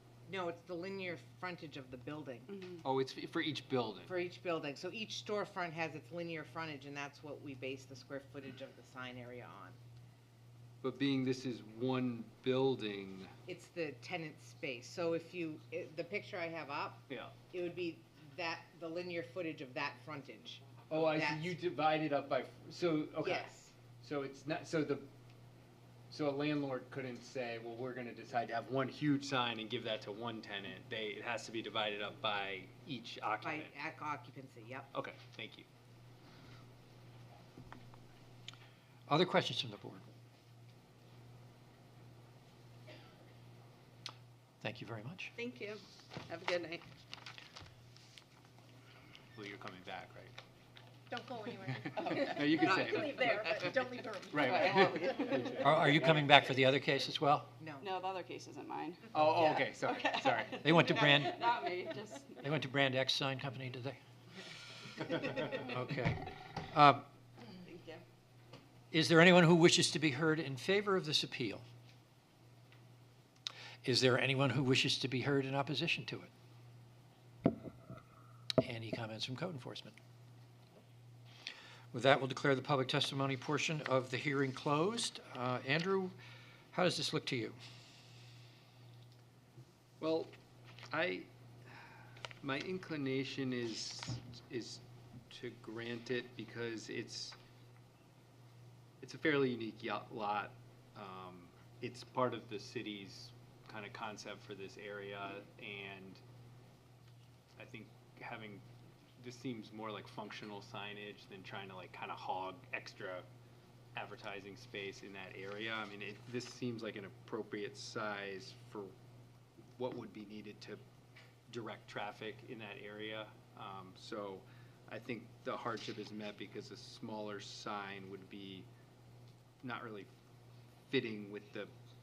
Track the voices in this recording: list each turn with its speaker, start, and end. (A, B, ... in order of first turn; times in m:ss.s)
0:00.3-0:02.5 A
0:02.8-0:04.1 B
0:04.1-0:09.8 A
0:10.8-0:13.3 B
0:13.4-0:21.5 A
0:20.9-0:23.5 B
0:23.2-0:23.7 A
0:24.0-0:25.1 B
0:26.1-0:33.7 B
0:33.4-0:34.9 A
0:34.9-0:35.6 B
0:39.1-0:40.0 C
0:44.6-0:45.3 C
0:45.4-0:46.8 D
0:49.3-0:50.3 B
0:51.1-0:55.4 E
0:51.8-0:53.8 B
0:52.0-0:52.3 D
0:54.3-0:56.2 B
0:54.5-0:55.5 D
0:55.6-0:57.5 C
0:57.6-0:57.9 A
0:57.8-1:02.4 D
0:59.1-1:00.8 B
1:00.6-1:01.5 C
1:02.4-1:04.0 C
1:05.4-1:07.0 C
1:07.6-1:08.0 D
1:08.9-1:11.6 C
1:13.8-1:16.3 C
1:18.6-1:20.0 C
1:21.9-1:26.1 C
1:26.7-1:27.6 C
1:30.0-1:30.3 B
1:30.9-1:31.8 B
1:32.4-1:37.4 B
1:39.0-1:46.2 B
1:47.6-1:48.6 B
1:49.2-1:53.3 B
1:54.0-1:58.9 B
1:59.6-2:00.8 B
2:01.5-2:08.7 B
2:09.6-2:10.1 B
2:10.9-2:11.7 B